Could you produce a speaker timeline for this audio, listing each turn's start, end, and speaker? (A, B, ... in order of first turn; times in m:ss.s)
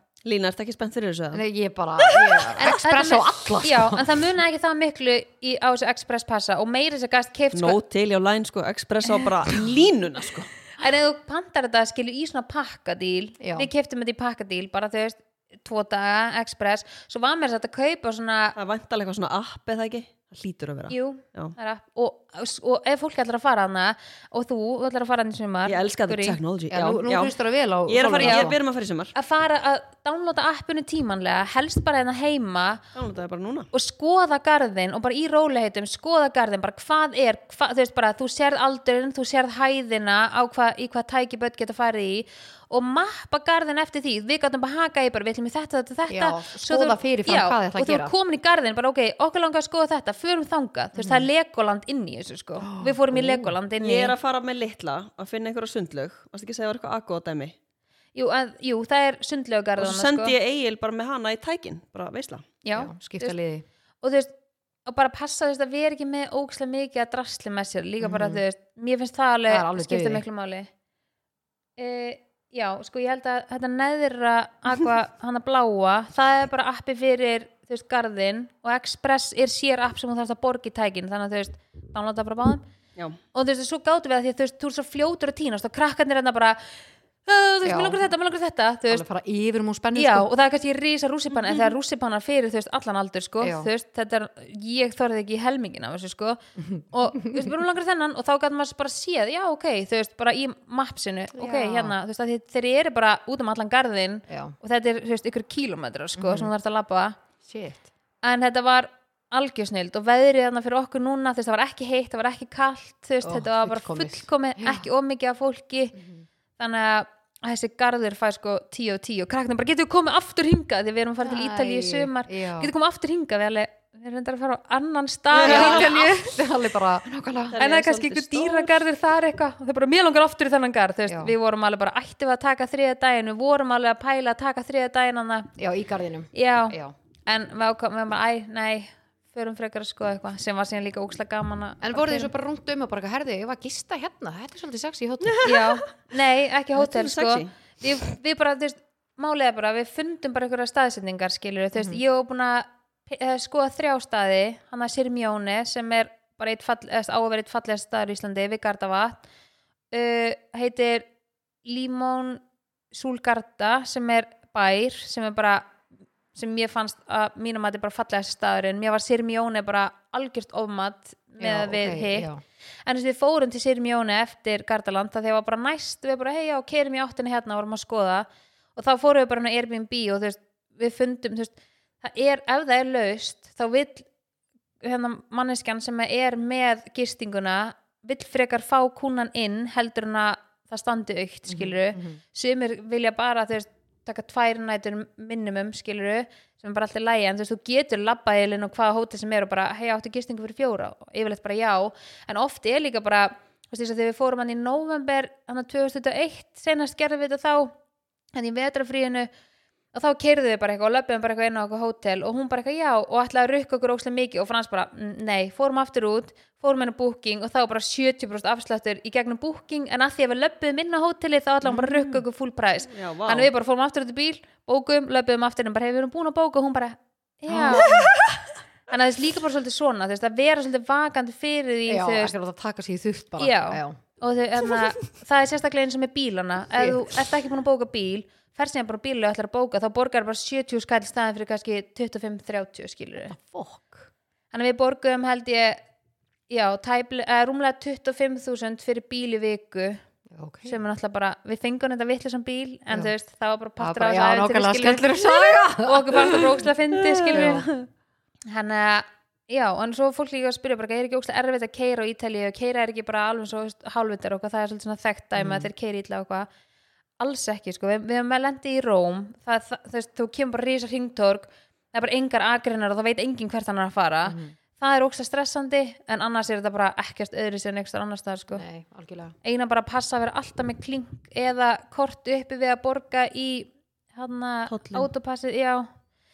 0:00.2-0:01.4 A
0:01.3-0:04.3 B
0:02.0-0:02.7 A
0:02.6-0:07.8 C
0:07.5-0:10.5 A
0:10.8-0:18.6 C
0:13.4-0:13.7 B
0:18.6-0:21.5 A
0:20.9-0:26.4 C
0:25.6-0:27.3 A
0:26.7-0:28.6 B
0:27.9-0:29.1 A
0:28.2-0:28.5 C
0:29.1-0:32.8 C
0:32.9-0:33.7 A
0:33.7-0:54.1 C
0:46.1-0:48.1 B
0:51.0-0:51.3 B
0:52.6-0:53.5 B
0:53.8-0:57.5 A
0:58.1-1:00.3 C
0:59.8-1:02.4 A
1:02.6-1:03.4 C
1:02.7-1:03.6 B
1:04.0-1:04.3 C
1:04.8-1:10.7 C
1:08.0-1:08.4 B
1:09.5-1:10.2 B
1:11.8-1:22.6 C
1:23.3-1:26.6 C
1:27.2-1:29.0 C
1:27.6-1:28.0 B
1:28.9-1:30.3 B
1:29.9-1:47.2 C
1:33.4-1:33.7 B
1:36.6-1:37.5 B
1:41.3-1:41.9 B
1:44.3-1:44.6 B
1:46.1-1:46.5 B
1:47.4-1:47.9 B
1:48.2-1:56.0 C
1:53.2-1:54.8 B
1:55.9-1:56.2 B
1:56.6-2:06.4 C
2:01.2-2:02.7 B
2:05.3-2:05.9 A
2:05.4-2:07.6 B
2:07.5-2:08.8 A
2:07.6-2:15.5 C
2:11.1-2:11.3 B
2:15.6-2:16.9 B
2:16.3-2:22.3 C
2:21.8-2:25.5 B
2:25.2-2:25.7 A
2:25.4-2:39.2 C
2:26.8-2:27.5 A
2:31.7-2:32.0 B
2:39.9-2:41.0 C
2:41.6-2:45.7 C
2:46.3-2:52.3 C
2:51.4-2:52.4 B
2:52.8-3:04.1 C
3:04.8-3:27.7 C
3:11.5-3:12.2 B
3:28.3-3:29.3 C
3:29.9-3:48.1 C
3:41.6-3:42.2 B
3:42.9-3:43.5 A
3:47.5-3:48.1 B
3:47.8-3:48.3 A
3:48.9-3:52.3 C
3:51.9-3:54.0 B
3:53.4-4:03.3 C
3:56.7-3:57.1 B
4:03.2-4:04.1 B
4:04.5-4:05.8 C
4:06.5-4:10.0 C
4:10.3-4:10.8 B
4:10.6-4:17.7 C
4:13.8-4:16.6 B
4:17.0-4:17.8 A
4:17.3-4:17.7 B
4:18.5-4:26.5 C
4:25.4-4:25.7 B
4:27.2-4:38.6 C
4:34.2-4:34.5 B
4:38.5-4:39.3 B
4:39.4-4:45.9 C
4:44.7-4:45.1 A